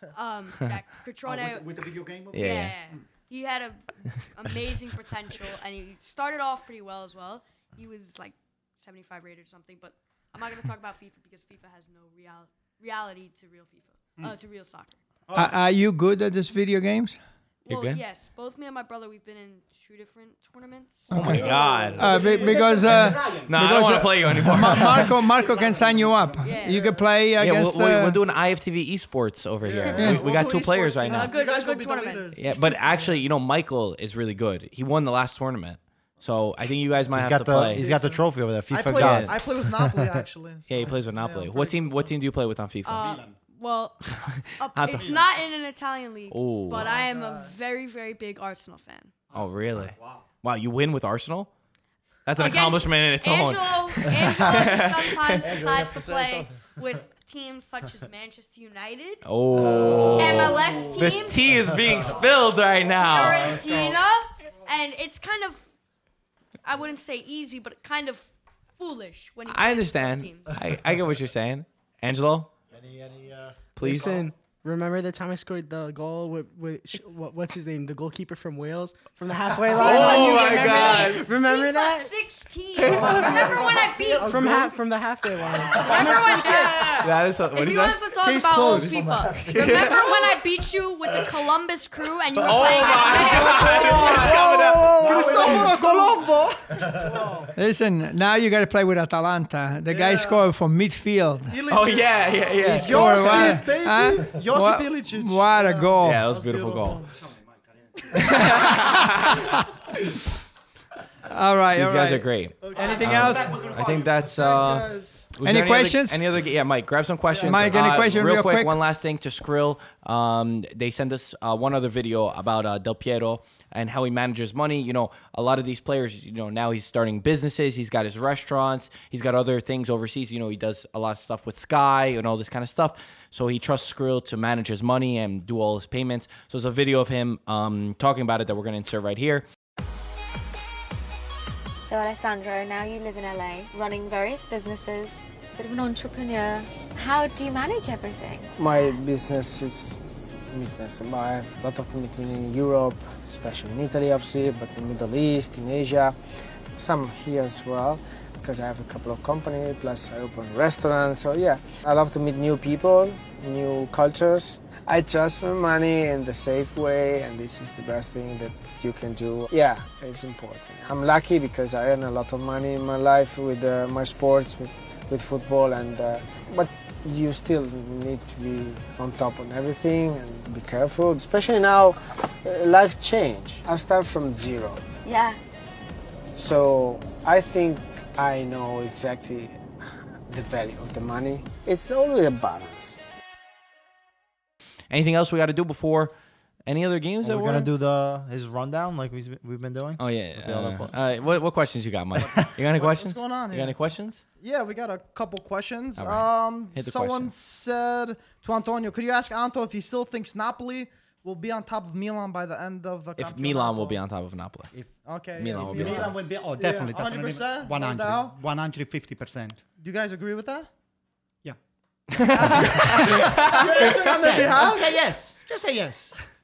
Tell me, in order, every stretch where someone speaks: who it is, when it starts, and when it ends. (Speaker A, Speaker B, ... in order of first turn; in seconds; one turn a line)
Speaker A: 0.1-1.7
Speaker B: 1.2-3.0
Speaker A: 2.3-15.0
Speaker C: 2.3-2.7
Speaker B: 15.3-15.6
Speaker D: 15.3-17.2
Speaker A: 17.6-21.5
Speaker C: 17.7-18.0
Speaker D: 21.1-28.2
Speaker C: 21.1-22.3
Speaker B: 21.2-23.8
Speaker E: 21.5-21.9
Speaker C: 23.4-25.1
Speaker B: 24.7-26.6
Speaker A: 26.4-26.9
Speaker E: 26.7-27.1
Speaker C: 27.4-31.4
Speaker E: 29.6-33.2
Speaker D: 29.9-30.2
Speaker A: 31.1-32.4
Speaker C: 32.3-37.9
Speaker F: 37.1-40.2
Speaker E: 37.7-42.1
Speaker C: 38.9-39.3
Speaker C: 40.7-43.1
Speaker A: 42.8-49.1
Speaker B: 42.9-43.4
Speaker C: 44.2-45.2
Speaker B: 44.9-45.3
Speaker C: 46.3-46.9
Speaker E: 46.8-47.5
Speaker B: 49.3-50.2
Speaker C: 49.3-51.5
Speaker C: 52.2-55.5
Speaker A: 52.4-59.2
Speaker B: 55.5-56.1
Speaker F: 55.9-56.2
Speaker C: 59.2-63.6
Speaker F: 59.6-60.1
Speaker B: 59.8-61.0
Speaker A: 60.1-61.5
Speaker A: 63.0-65.6
Speaker B: 63.5-63.9
Speaker A: 66.6-70.5
Speaker C: 69.5-72.5
Speaker F: 72.7-73.6
Speaker C: 73.8-74.2
Speaker G: 73.8-82.1
Speaker C: 79.7-81.3
Speaker A: 79.7-84.5
Speaker C: 82.8-83.5
Speaker B: 82.8-84.7
Speaker E: 83.3-83.5
Speaker G: 84.2-86.8
Speaker E: 84.3-84.7
Speaker B: 85.5-86.1
Speaker A: 85.7-94.3
Speaker C: 87.0-90.1
Speaker E: 88.1-89.9
Speaker C: 92.4-95.5
Speaker E: 92.9-97.5
Speaker B: 93.2-96.3
Speaker D: 97.5-101.6
Speaker E: 99.9-100.5
Speaker E: 101.5-107.1
Speaker C: 101.7-103.6
Speaker D: 102.9-106.2
Speaker C: 106.0-107.0
Speaker B: 107.0-109.1
Speaker C: 108.1-109.5
Speaker D: 111.3-113.6
Speaker C: 111.7-139.4
Speaker E: 112.6-115.3
Speaker B: 112.7-114.7
Speaker D: 115.4-116.2
Speaker E: 117.3-118.0
Speaker D: 117.4-118.8
Speaker H: 141.8-148.5
Speaker I: 148.6-156.1
Speaker I: 156.8-184.8
Speaker H: 185.0-185.4
Speaker I: 186.3-189.6
Speaker I: 190.3-193.0
Speaker C: 194.9-196.1
Speaker C: 196.7-197.7
Speaker F: 197.2-200.9
Speaker C: 200.0-204.2
Speaker E: 202.2-203.8
Speaker E: 204.4-214.0
Speaker C: 206.0-207.3
Speaker C: 213.2-214.7
Speaker E: 215.0-218.3
Speaker C: 215.4-216.2
Speaker B: 215.6-219.6
Speaker E: 219.8-220.7
Speaker C: 222.2-223.9
Speaker B: 222.2-226.1
Speaker E: 222.8-225.0